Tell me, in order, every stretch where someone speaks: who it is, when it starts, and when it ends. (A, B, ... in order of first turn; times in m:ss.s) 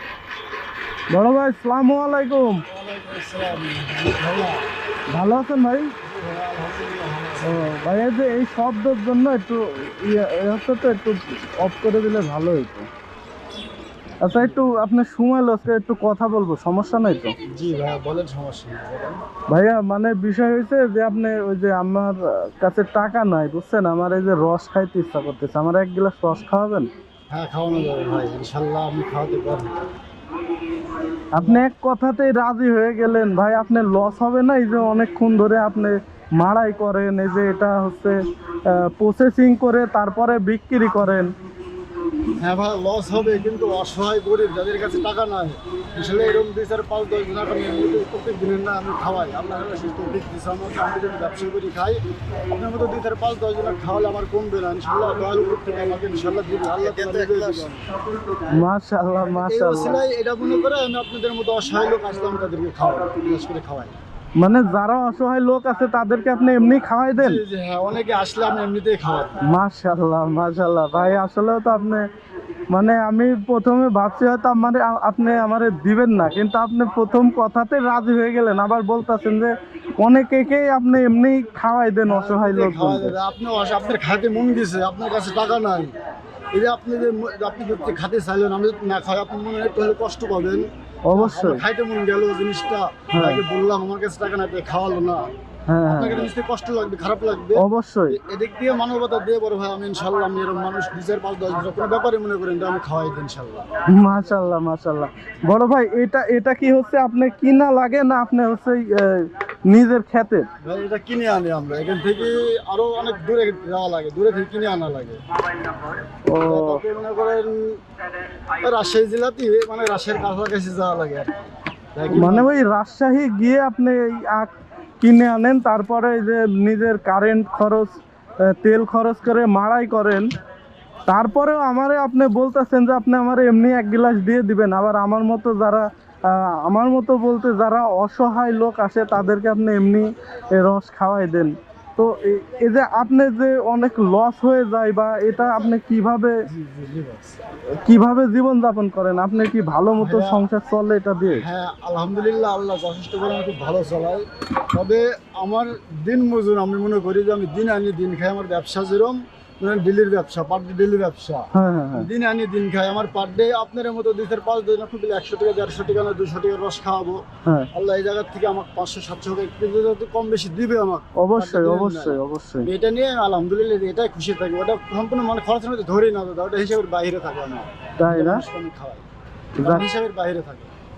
0:01.1-0:02.6 A
0:02.7-0:04.6 B
0:05.1-0:05.9 A
0:06.0-0:07.8 B
0:07.4-0:12.9 A
0:14.2-0:17.3 A
0:14.3-0:14.7 B
0:17.5-0:19.2 B
0:19.5-0:26.9 A
0:27.3-0:29.6 B
0:31.3-0:41.3 A
0:42.4-0:57.8 B
0:58.5-1:00.0 A
0:59.4-1:04.0 B
1:04.4-1:07.4 A
1:07.1-1:09.4 B
1:09.4-1:12.1 A
1:12.7-1:23.2 A
1:22.1-1:25.9 B
1:26.5-1:35.3 B
1:31.0-1:31.6 A
1:33.1-1:33.4 A
1:35.7-1:36.3 A
1:35.9-1:43.7 B
1:37.6-1:38.2 A
1:43.9-1:50.5 A
1:50.6-1:55.2 B
1:56.3-1:56.8 A
1:56.4-1:57.8 B
1:58.6-2:01.3 B
2:01.9-2:02.5 B
2:02.1-2:10.3 A
2:11.1-2:26.4 A
2:26.4-2:27.4 B
2:27.8-2:31.4 A
2:30.0-2:30.4 B
2:31.4-2:59.0 B
2:41.5-2:42.1 A
2:51.2-2:52.7 A
2:58.0-2:58.4 A
2:59.6-2:59.8 A
2:59.6-3:00.7 B